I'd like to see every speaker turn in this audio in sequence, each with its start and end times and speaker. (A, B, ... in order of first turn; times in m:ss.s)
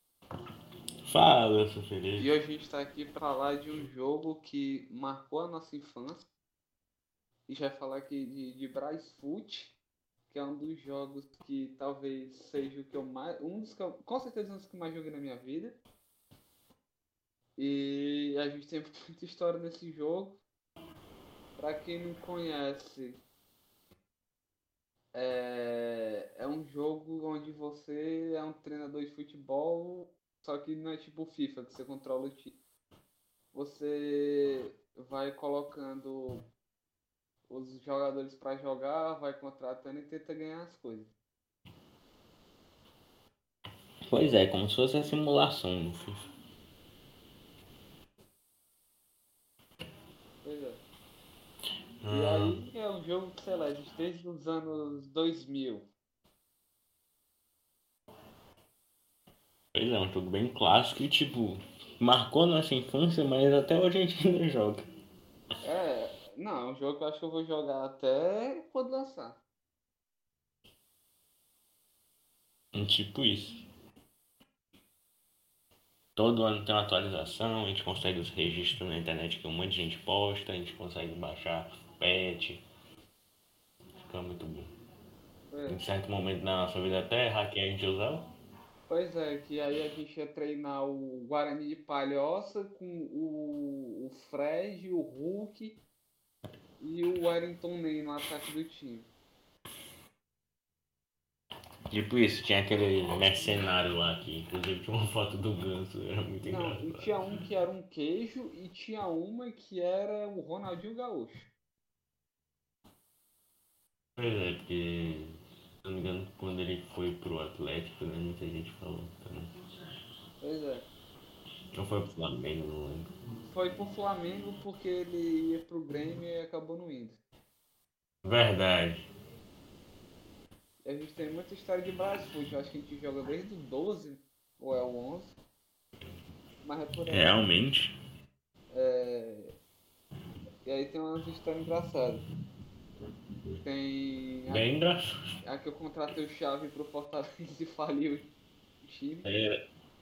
0:01.1-0:02.3 A
0:02.2-0:06.3 B
0:07.5-0:09.8 B
0:10.3-0:15.8 B
0:17.6-0:20.4 B
0:21.6-0:23.2 B
0:25.1-0:32.5 B
0:33.5-0:36.4 B
0:37.5-0:41.1 B
0:44.1-0:46.2 A
0:50.4-0:50.8 B
0:52.0-0:52.6 A
0:52.1-0:55.8 B
0:59.7-1:04.8 A
1:05.6-1:09.4 B
1:12.7-1:13.6 A
1:16.2-1:22.6 A
1:24.1-1:24.7 A
1:25.5-1:25.8 B
1:25.7-1:28.3 A
1:28.9-1:35.8 B
1:36.8-1:39.1 B
1:41.9-1:47.1 A
1:46.5-1:51.5 B
1:54.2-1:59.5 A
2:00.4-2:00.9 B
2:01.8-2:03.1 A
2:03.5-2:07.2 B
2:08.2-2:09.0 A
2:10.8-2:15.4 B
2:16.6-2:17.3 B
2:17.1-2:17.9 A
2:18.7-2:19.6 B
2:20.7-2:22.2 B
2:23.6-2:24.7 B
2:24.5-2:25.1 A
2:25.4-2:28.3 B
2:28.8-2:29.3 B
2:29.2-2:29.6 A